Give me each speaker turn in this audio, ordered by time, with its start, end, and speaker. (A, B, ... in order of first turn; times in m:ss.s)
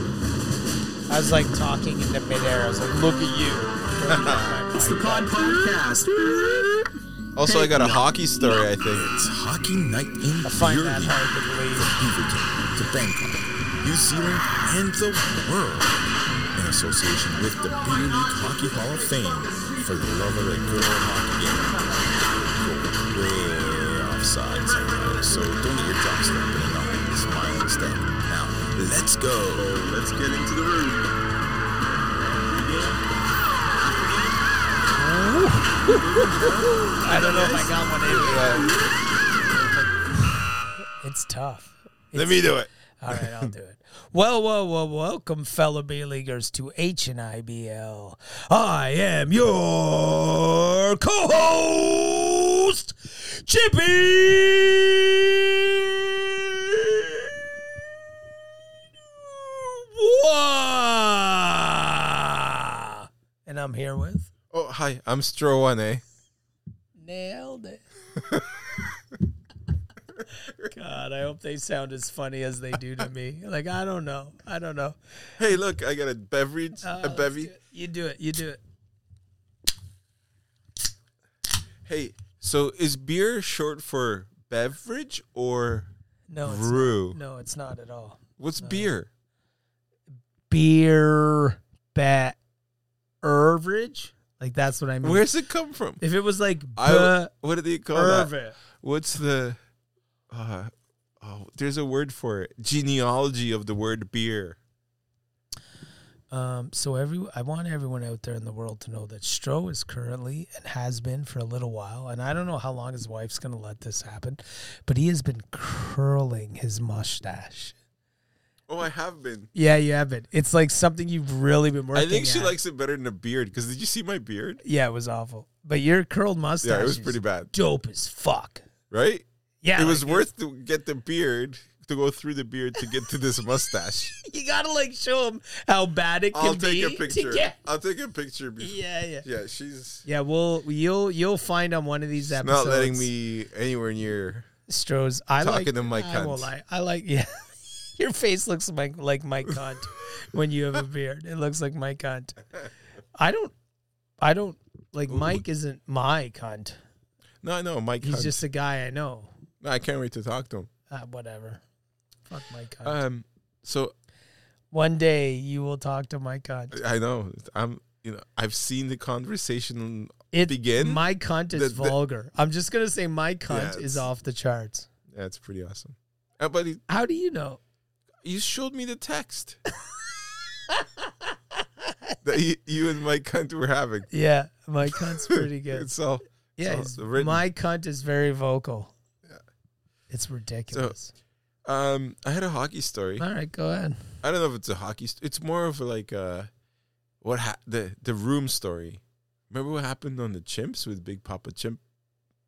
0:01.1-0:05.4 A
0:04.0-0:04.6 B
0:05.7-0:06.1 C
0:07.4-0:09.5 B
0:09.2-0:11.1 C
0:10.4-0:11.9 A
0:12.0-0:12.3 C
0:12.8-0:13.3 C
0:13.8-0:15.8 C
0:16.6-0:17.2 C
0:17.1-0:17.4 B
0:18.0-0:19.3 C
0:19.9-0:21.6 C
0:22.6-0:29.6 C
0:26.2-0:27.0 B
0:28.8-0:29.8 B
0:34.9-0:38.7 A
0:37.1-0:38.7 B
0:41.0-0:57.3 A
0:42.1-0:43.5 B
0:59.0-1:04.3 A
1:04.5-1:06.0 B
1:07.0-1:07.8 A
1:10.6-1:15.0 A
1:15.4-1:17.5 B
1:16.8-1:18.6 A
1:21.8-1:25.9 B
1:26.3-1:28.9 A
1:26.4-1:27.2 B
1:28.4-1:29.1 B
1:30.5-1:32.4 A
1:33.2-1:35.2 A
1:35.0-1:36.0 B
1:36.0-1:37.3 A
1:36.8-1:39.6 B
1:37.9-1:38.6 A
1:40.3-1:44.6 B
1:46.3-1:57.8 A
1:58.7-1:59.5 B
1:59.6-2:02.6 A
2:01.9-2:04.6 B
2:04.6-2:08.6 A
2:06.6-2:07.5 B
2:08.9-2:14.2 B
2:09.6-2:10.3 A
2:14.2-2:17.6 A
2:16.3-2:20.0 B
2:18.6-2:19.2 A
2:20.0-2:23.1 A
2:22.2-2:24.5 B
2:24.7-2:32.4 A
2:25.4-2:26.5 B
2:33.2-2:33.5 A
2:34.2-2:36.8 A
2:35.1-2:35.4 B
2:37.4-2:38.4 B
2:38.0-2:39.3 A
2:39.6-2:40.7 B
2:40.9-2:41.6 A
2:42.2-2:43.0 A
2:42.8-2:43.9 B
2:44.7-2:46.8 A
2:46.7-2:52.0 B
2:50.3-2:54.9 A
2:53.5-2:54.1 B
2:55.1-2:56.8 B
2:56.9-2:57.6 A
2:58.2-2:59.6 B
3:00.7-3:02.1 A
3:02.2-3:04.1 B
3:04.1-3:05.9 A
3:05.2-3:07.4 B
3:06.6-3:08.9 A
3:10.1-3:11.1 A
3:10.7-3:11.0 B
3:11.7-3:13.2 B
3:13.2-3:14.0 A
3:14.2-3:16.5 B
3:17.2-3:21.8 B